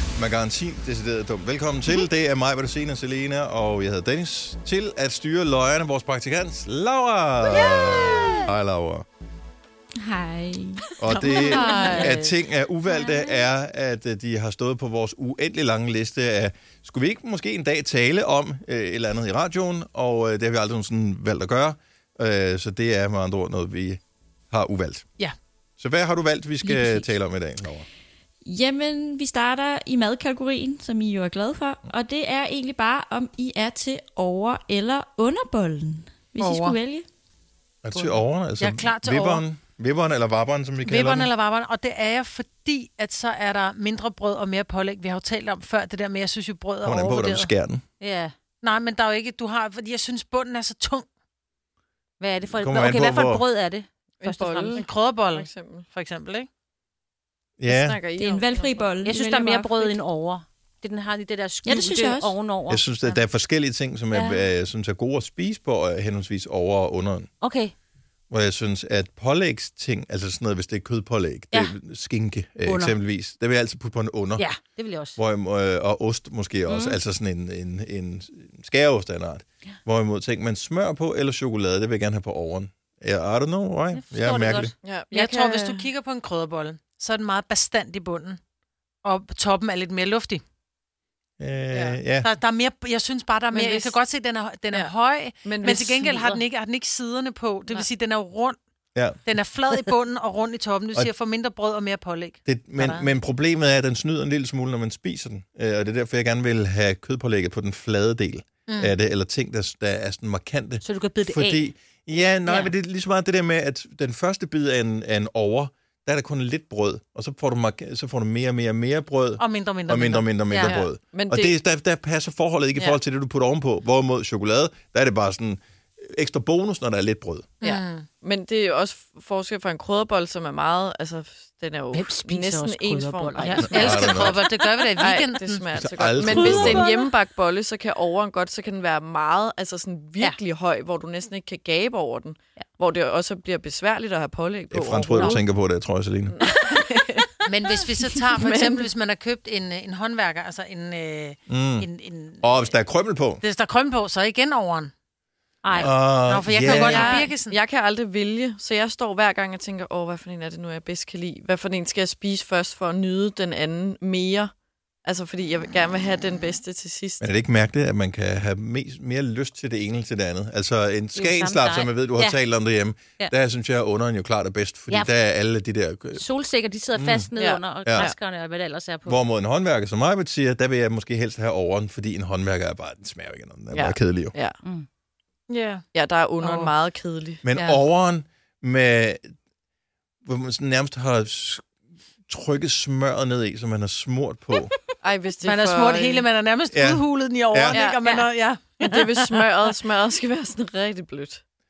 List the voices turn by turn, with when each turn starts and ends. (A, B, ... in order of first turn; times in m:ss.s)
0:00.2-0:09.0 A
0:07.5-0:08.5 B
0:10.0-0:12.1 C
0:11.0-0:24.0 A
0:11.1-0:12.2 D
0:11.7-0:12.3 B
0:12.9-0:13.4 C
0:24.5-0:25.0 A
0:25.8-0:27.9 A
0:26.6-0:27.1 C
0:28.4-0:37.0 C
0:36.4-0:36.8 D
0:37.8-0:41.3 A
0:37.9-0:39.4 D
0:40.8-0:47.5 D
0:46.8-0:47.8 A
0:48.0-0:48.3 B
0:48.6-0:51.0 D
0:52.2-0:54.9 B
0:52.5-0:53.4 A
0:54.2-0:55.9 E
0:54.8-0:56.5 D
0:57.6-0:58.0 A
0:57.7-0:58.9 E
0:58.1-0:59.9 C
0:59.0-1:03.2 B
1:01.6-1:02.4 C
1:02.7-1:07.3 A
1:04.1-1:04.4 B
1:07.4-1:07.7 B
1:08.3-1:14.5 A
1:12.7-1:13.0 B
1:14.4-1:15.2 B
1:15.2-1:24.7 A
1:16.7-1:17.0 B
1:23.9-1:24.7 B
1:24.8-1:25.9 E
1:25.1-1:28.4 D
1:29.0-1:30.4 D
1:31.4-1:32.3 A
1:31.7-1:38.6 D
1:33.5-1:33.9 E
1:34.7-1:36.4 E
1:39.0-1:39.2 A
1:39.2-1:43.1 D
1:42.5-2:07.6 A
1:48.7-1:48.9 D
1:50.8-1:51.7 B
1:59.4-2:00.8 D
2:00.6-2:01.6 E
2:07.6-2:08.1 D
2:07.6-2:14.4 E
2:11.9-2:14.5 B
2:13.4-2:15.7 D
2:13.7-2:14.5 A
2:14.9-2:25.4 E
2:15.8-2:16.9 A
2:24.7-2:26.4 A
2:26.3-2:27.4 E
2:27.4-2:32.7 D
2:28.4-2:28.9 E
2:31.5-2:31.9 A
2:32.4-2:33.4 A
2:33.4-2:34.9 D
2:35.6-2:35.9 B
2:35.7-2:37.2 A
2:36.1-2:37.6 D
2:36.7-2:44.5 E
2:45.0-2:47.3 E
2:47.2-2:56.2 A
2:51.2-2:52.4 B
2:56.2-2:59.2 B
2:57.0-2:57.3 A
2:57.4-2:58.2 E
2:57.8-2:58.1 A
2:59.1-3:04.4 A
3:03.7-3:04.6 E
3:05.5-3:05.8 D
3:05.9-3:07.4 E
3:06.4-3:06.7 D
3:07.4-3:09.3 A
3:07.6-3:07.8 D
3:10.2-3:11.7 A
3:12.3-3:14.7 A
3:15.0-3:16.3 E
3:15.4-3:19.6 D
3:16.7-3:17.8 A
3:17.7-3:18.3 E
3:18.8-3:21.4 E